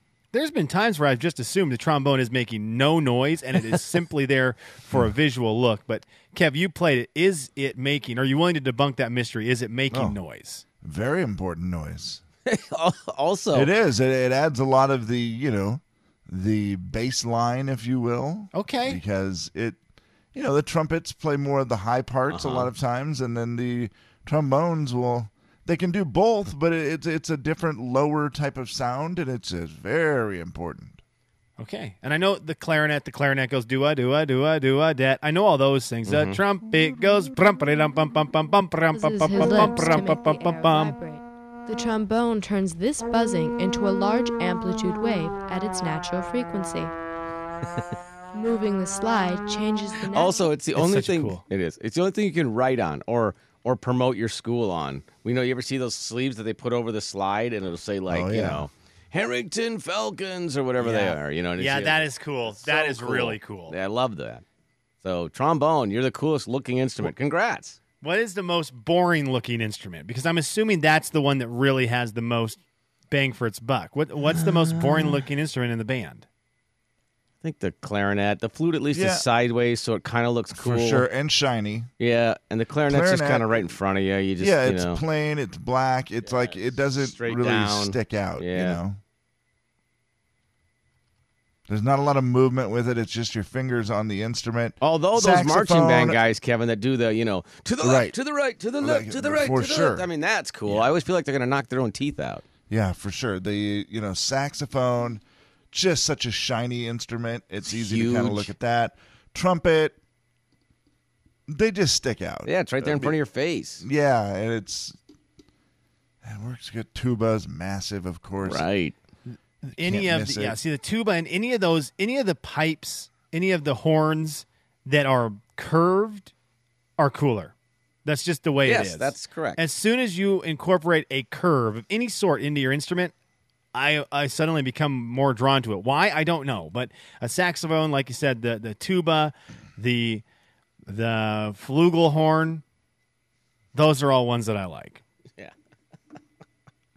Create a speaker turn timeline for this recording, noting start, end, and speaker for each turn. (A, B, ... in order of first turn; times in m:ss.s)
0:00.3-0:10.6 A
0:09.9-0:10.2 B
0:10.8-0:12.2 B
0:12.5-0:13.7 C
0:13.5-0:19.8 B
0:18.5-0:19.0 A
0:20.3-0:31.0 B
0:22.3-0:22.7 C
0:31.6-0:41.0 A
0:36.1-0:36.4 C
0:38.9-0:46.9 D
0:48.3-0:50.5 D
0:50.1-1:04.4 C
0:50.8-0:51.4 A
0:58.1-0:58.7 B
1:00.8-1:03.8 A
1:05.0-1:07.8 C
1:08.0-1:12.6 A
1:13.1-1:16.3 A
1:14.4-1:15.2 C
1:17.4-1:21.1 C
1:18.9-1:19.2 B
1:20.5-1:21.9 B
1:22.0-1:25.0 C
1:22.9-1:23.7 B
1:24.4-1:29.0 B
1:26.2-1:28.8 C
1:31.7-1:36.2 B
1:34.8-1:42.4 C
1:37.8-1:38.2 B
1:38.8-1:40.1 B
1:42.7-1:50.0 B
1:47.7-1:48.5 C
1:51.5-1:53.2 B
1:52.5-1:53.8 C
1:53.8-1:55.0 B
1:56.2-1:58.7 B
1:58.4-1:59.0 C
1:59.3-2:06.3 A
1:59.8-2:00.6 B
2:07.0-2:07.5 A
2:08.0-2:13.1 A
2:08.6-2:09.6 C
2:13.7-2:20.2 A
2:20.9-2:22.6 A
2:23.7-2:25.0 A